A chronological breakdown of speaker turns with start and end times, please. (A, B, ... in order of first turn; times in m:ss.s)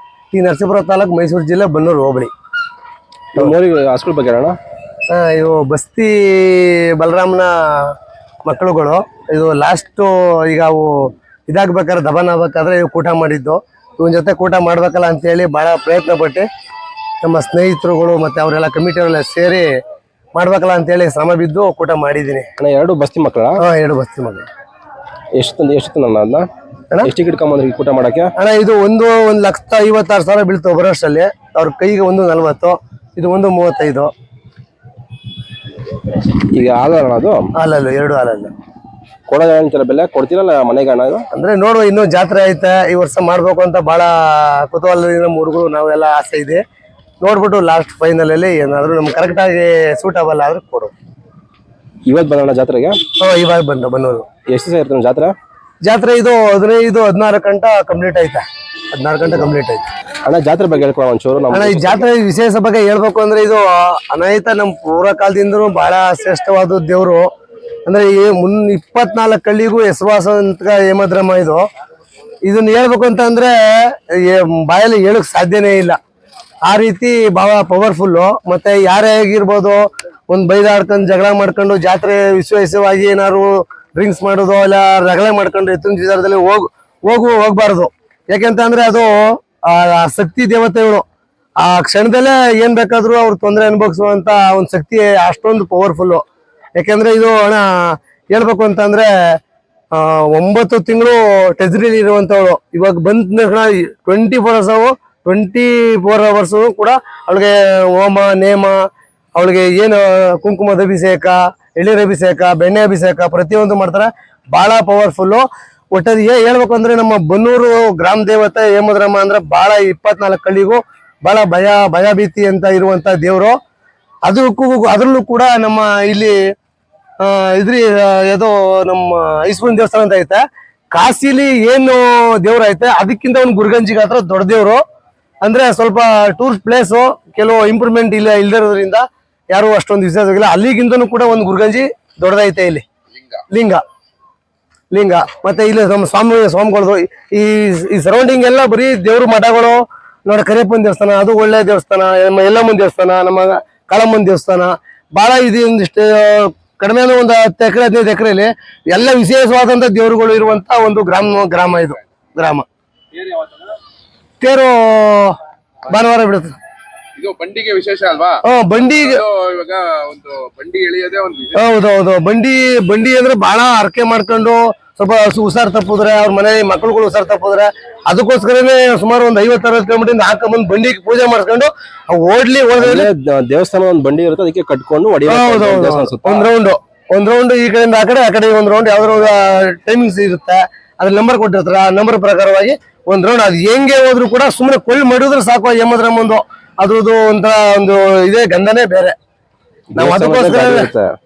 0:00.3-0:02.3 A
0:03.4-0:04.6 B
0:05.1-0:08.0 A
0:08.5-0:16.5 A
0:17.2-0:19.8 A
0:20.4-0:22.5 A
0:22.6-0:23.6 B
0:23.6-0:24.5 A
0:25.4-0:26.5 B
0:27.0-0:28.3 B
0:28.4-0:34.1 A
0:36.5-0:37.4 B
0:37.6-0:38.5 A
0:39.3-0:41.3 B
0:41.3-0:46.6 A
0:47.2-0:50.9 A
0:52.1-0:53.0 B
0:53.2-0:54.3 A
0:54.5-0:55.4 B
0:55.8-0:59.8 A
1:00.2-1:02.1 B
1:01.5-1:07.3 A
1:07.9-1:11.6 A
1:12.4-1:16.0 A
1:16.6-1:31.0 A
1:31.6-1:36.2 A
1:36.8-1:39.1 A
1:39.9-2:03.5 A
2:04.2-2:06.4 A
2:07.2-2:10.4 A
2:10.9-2:14.8 A
2:15.4-2:22.8 A
2:23.5-2:23.8 A
2:24.9-2:42.7 A
2:44.4-2:45.4 A
2:45.9-2:46.6 A
2:47.2-2:51.6 C
2:48.4-2:49.2 A
2:51.6-3:03.1 A
3:02.8-3:06.5 B
3:05.3-3:19.2 A
3:20.0-3:21.1 B
3:20.0-3:20.9 A